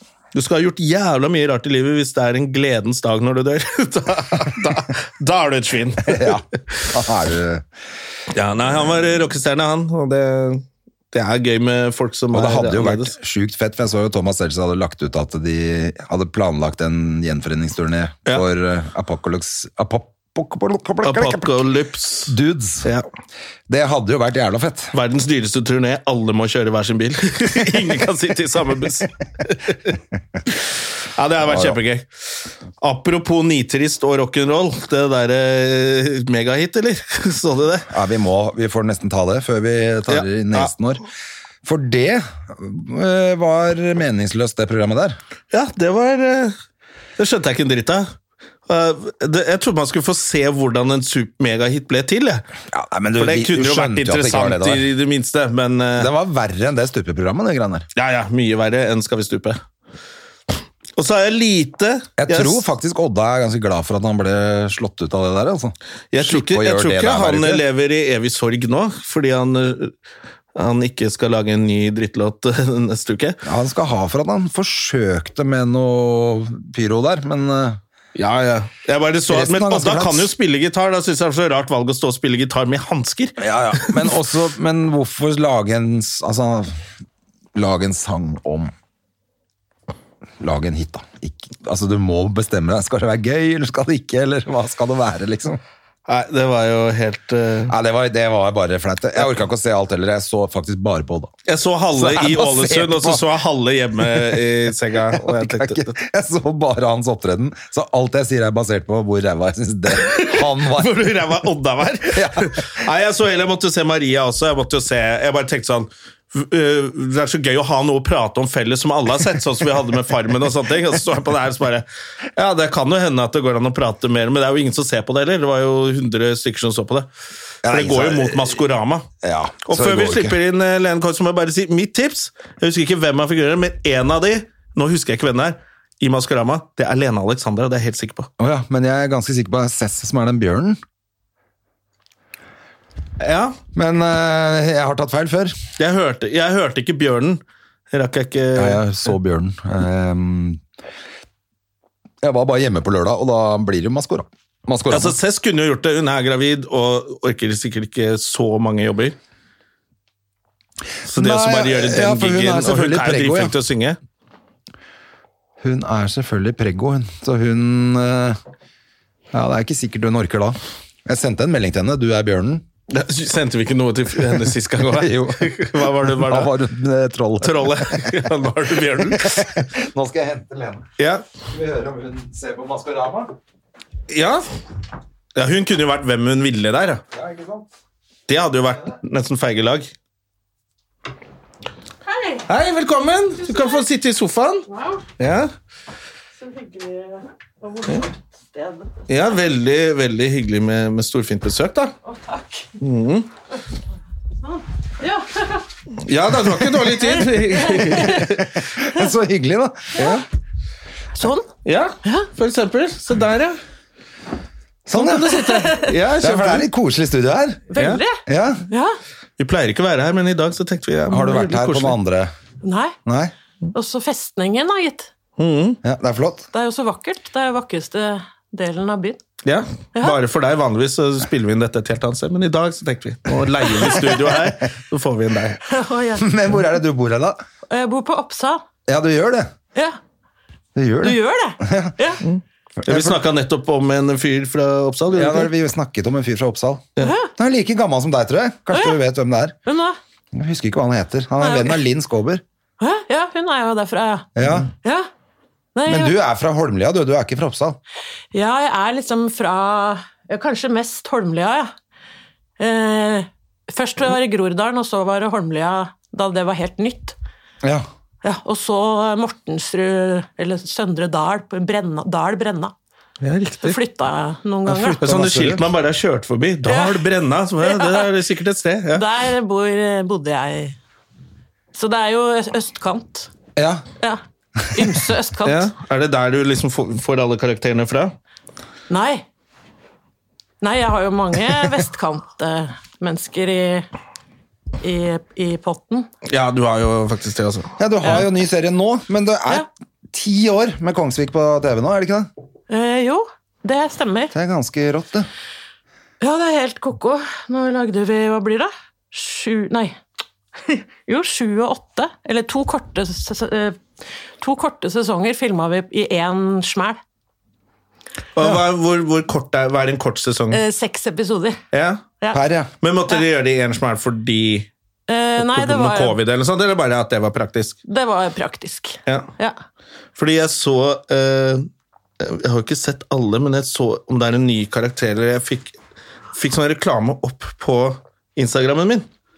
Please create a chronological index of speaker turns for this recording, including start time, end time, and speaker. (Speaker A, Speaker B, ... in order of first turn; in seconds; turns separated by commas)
Speaker A: 0.3-6.8, Speaker B: 6.1-7.7, Speaker A: 8.3-13.1, Speaker B: 12.3-21.6, Speaker A: 21.0-23.1, Speaker B: 22.3-22.9, Speaker B: 23.7-24.9, Speaker A: 24.9-29.9, Speaker A: 31.2-32.1, Speaker B: 31.4-31.8, Speaker A: 32.8-37.9, Speaker B: 37.9-41.0, Speaker A: 40.1-40.7, Speaker B: 41.6-45.2, Speaker A: 45.5-46.6, Speaker A: 47.2-48.1, Speaker A: 48.7-52.5, Speaker B: 52.7-54.9, Speaker A: 53.2-56.1, Speaker B: 56.0-57.9, Speaker A: 58.0-59.6, Speaker A: 61.0-62.6, Speaker B: 62.2-67.6, Speaker A: 66.1-69.9, Speaker A: 70.6-73.4, Speaker B: 73.5-77.8, Speaker A: 78.2-84.1, Speaker B: 79.3-80.3, Speaker B: 83.4-86.8, Speaker B: 87.5-88.7, Speaker B: 90.4-95.6, Speaker A: 96.1-97.7, Speaker B: 97.7-101.3, Speaker A: 101.5-105.9, Speaker B: 101.9-103.2, Speaker B: 104.1-104.4, Speaker B: 105.1-111.0, Speaker A: 110.0-127.1, Speaker B: 112.1-112.6, Speaker B: 127.6-128.6, Speaker A: 127.7-129.1, Speaker B: 129.2-130.4, Speaker A: 129.7-138.3, Speaker B: 138.4-140.8, Speaker A: 143.2-143.6, Speaker B: 143.8-145.6, Speaker A: 145.8-147.4, Speaker A: 147.9-148.9, Speaker B: 148.6-150.6, Speaker B: 152.2-155.2, Speaker A: 154.9-159.2, Speaker A: 161.1-164.0, Speaker B: 161.1-163.5, Speaker B: 165.6-168.4, Speaker B: 169.3-172.7, Speaker A: 172.9-176.5, Speaker B: 174.9-178.2, Speaker A: 177.4-179.6, Speaker B: 179.0-180.9, Speaker A: 181.0-181.2, Speaker B: 181.5-183.3, Speaker A: 184.1-184.4, Speaker A: 185.3-187.0, Speaker B: 187.1-187.7, Speaker A: 188.3-189.9, Speaker C: 192.1-192.5, Speaker A: 192.5-194.7, Speaker C: 193.4-193.8, Speaker C: 194.7-195.0, Speaker A: 195.2-195.5, Speaker C: 196.4-198.9, Speaker A: 199.1-201.9, Speaker C: 202.0-202.8, Speaker A: 202.8-203.3, Speaker C: 204.4-205.6, Speaker A: 206.0-208.5, Speaker C: 207.1-208.3, Speaker B: 208.0-210.2, Speaker C: 211.2-211.5, Speaker A: 211.7-213.6, Speaker B: 214.9-215.4, Speaker A: 214.9-216.7, Speaker C: 215.5-215.9, Speaker B: 216.2-217.7, Speaker C: 217.7-219.0, Speaker A: 217.8-218.0, Speaker B: 218.3-218.6, Speaker A: 219.4-222.0, Speaker B: 221.1-222.3, Speaker C: 222.6-223.0, Speaker B: 223.1-223.3, Speaker C: 223.7-225.1, Speaker A: 225.4-225.8, Speaker B: 225.8-226.5, Speaker C: 226.5-229.2, Speaker A: 229.4-235.6, Speaker C: 235.7-236.3, Speaker B: 236.2-237.4, Speaker C: 237.7-238.6, Speaker B: 238.9-239.5, Speaker B: 240.8-242.0, Speaker C: 241.0-242.2, Speaker A: 242.2-245.5, Speaker B: 242.8-243.2, Speaker B: 245.1-249.6, Speaker C: 247.0-247.3, Speaker C: 248.7-249.0, Speaker C: 249.7-250.0, Speaker B: 250.3-252.4, Speaker C: 251.4-251.8, Speaker C: 252.8-254.3, Speaker B: 254.4-254.7, Speaker C: 254.8-255.1, Speaker C: 255.8-256.1, Speaker B: 255.9-257.8, Speaker C: 258.3-261.7, Speaker C: 262.6-267.2, Speaker C: 268.2-272.7, Speaker A: 273.2-273.8, Speaker C: 273.6-275.0, Speaker B: 274.7-275.6, Speaker A: 275.0-279.1, Speaker C: 276.7-277.0, Speaker C: 277.6-278.1, Speaker C: 278.9-280.8, Speaker C: 281.7-283.3, Speaker B: 283.6-283.9, Speaker C: 284.7-285.7, Speaker A: 285.4-288.1, Speaker C: 288.9-289.2, Speaker C: 290.6-293.9, Speaker C: 294.8-296.1, Speaker A: 296.2-297.7, Speaker B: 297.8-302.3, Speaker C: 302.7-304.3, Speaker B: 304.3-305.3, Speaker C: 306.2-310.0, Speaker C: 310.6-313.8, Speaker C: 314.4-317.0, Speaker A: 318.4-320.6, Speaker C: 320.5-321.6, Speaker A: 321.7-322.0, Speaker B: 322.3-322.7, Speaker A: 322.8-324.7, Speaker C: 325.1-326.2, Speaker A: 325.4-327.8, Speaker C: 327.9-329.6, Speaker A: 330.2-331.7, Speaker A: 332.2-335.8, Speaker A: 336.4-339.1